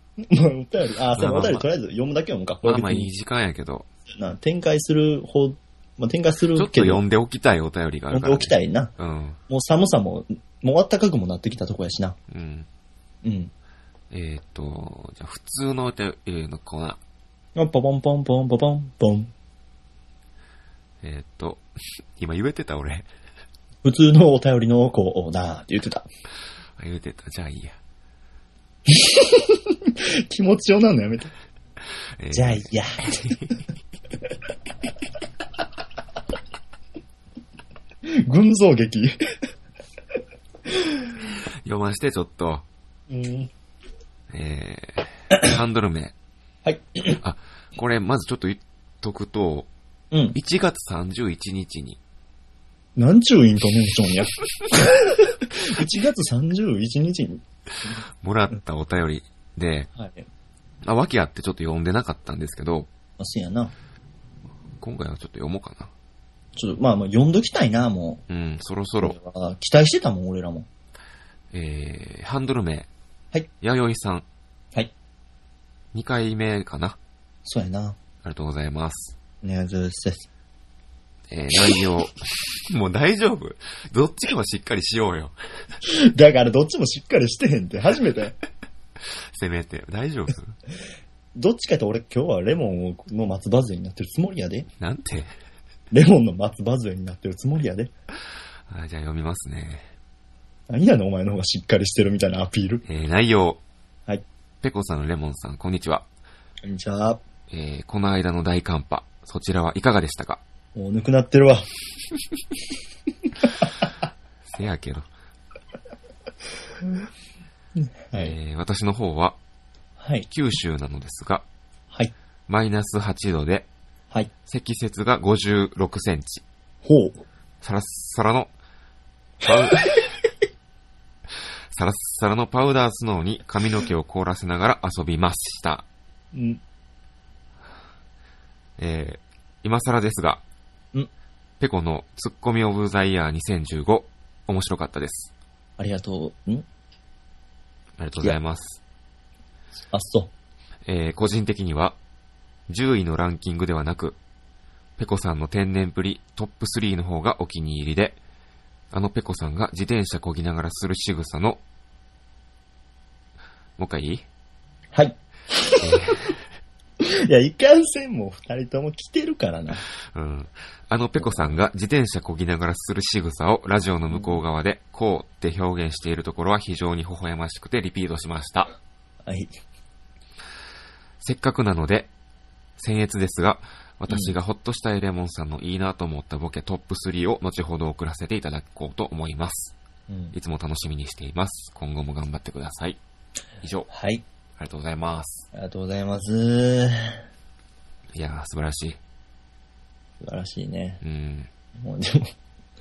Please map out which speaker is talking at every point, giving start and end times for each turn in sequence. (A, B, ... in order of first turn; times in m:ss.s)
0:00.2-0:03.1 A
0:01.1-0:01.7 B
0:02.6-0:03.9 B
0:04.1-0:07.0 A
0:06.5-0:09.4 B
0:08.1-0:08.9 A
0:09.5-0:12.2 A
0:12.3-0:12.7 B
0:13.2-0:13.5 A
0:14.1-0:17.0 B
0:17.5-0:19.3 A
0:21.0-0:23.1 B
0:23.8-0:26.0 A
0:26.8-0:27.8 B
0:28.9-0:31.3 A
0:32.2-0:33.5 B
0:32.3-0:33.2 A
0:38.0-0:39.2 A
0:40.7-0:41.0 A
0:41.6-0:42.6 B
0:43.1-0:43.5 A
0:44.3-0:46.1 B
0:46.6-0:47.2 A
0:47.2-0:49.7 B
0:50.1-0:50.4 A
0:50.3-0:52.0 B
0:53.0-0:57.4 A
0:58.2-0:59.9 B
0:59.9-1:00.2 A
1:00.8-1:02.9 B
1:03.2-1:03.7 A
1:04.8-1:05.9 B
1:06.6-1:08.2 A
1:08.3-1:09.2 B
1:09.0-1:10.7 A
1:11.5-1:12.9 B
1:13.6-1:14.2 B
1:15.9-1:17.0 B
1:17.4-1:18.0 A
1:18.2-1:19.2 B
1:19.4-1:20.3 A
1:21.3-1:25.3 B
1:25.8-1:28.4 A
1:29.3-1:30.6 B
1:31.3-1:34.7 A
1:34.8-1:35.3 B
1:35.9-1:37.9 A
1:38.7-1:39.9 B
1:40.7-1:42.8 A
1:42.8-1:43.6 B
1:44.6-1:46.0 B
1:46.6-1:47.2 A
1:47.5-1:50.4 B
1:50.7-1:51.7 A
1:54.4-1:55.1 B
1:58.1-1:58.4 A
1:58.1-1:59.4 B
2:00.0-2:00.3 A
2:00.3-2:01.4 B
2:02.5-2:03.7 B
2:04.4-2:06.4 B
2:06.8-2:07.2 A
2:07.6-2:08.5 B
2:09.4-2:10.0 B
2:11.7-2:15.8 B
2:16.3-2:16.6 A
2:18.8-2:20.4 B
2:21.6-2:25.3 B
2:25.8-2:26.6 A
2:28.0-2:28.8 B
2:29.9-2:30.3 A
2:30.8-2:32.0 B
2:32.7-2:34.2 B
2:35.0-2:38.2 B
2:38.9-2:41.6 B
2:43.8-2:44.2 B
2:44.9-2:46.1 A
2:45.8-2:46.4 B
2:47.0-2:49.8 A
2:50.1-2:58.7 B
2:51.2-2:51.5 A
2:54.1-2:54.4 A
2:59.2-2:59.5 A
3:01.2-3:02.1 B
3:02.8-3:09.7 B
3:04.1-3:04.3 A
3:10.1-3:10.3 A
3:10.3-3:13.0 B
3:13.6-3:13.9 B
3:13.9-3:14.2 A
3:14.6-3:15.5 B
3:15.5-3:17.2 A
3:18.1-3:19.0 B
3:20.2-3:21.0 A
3:21.0-3:21.5 B
3:21.8-3:22.3 A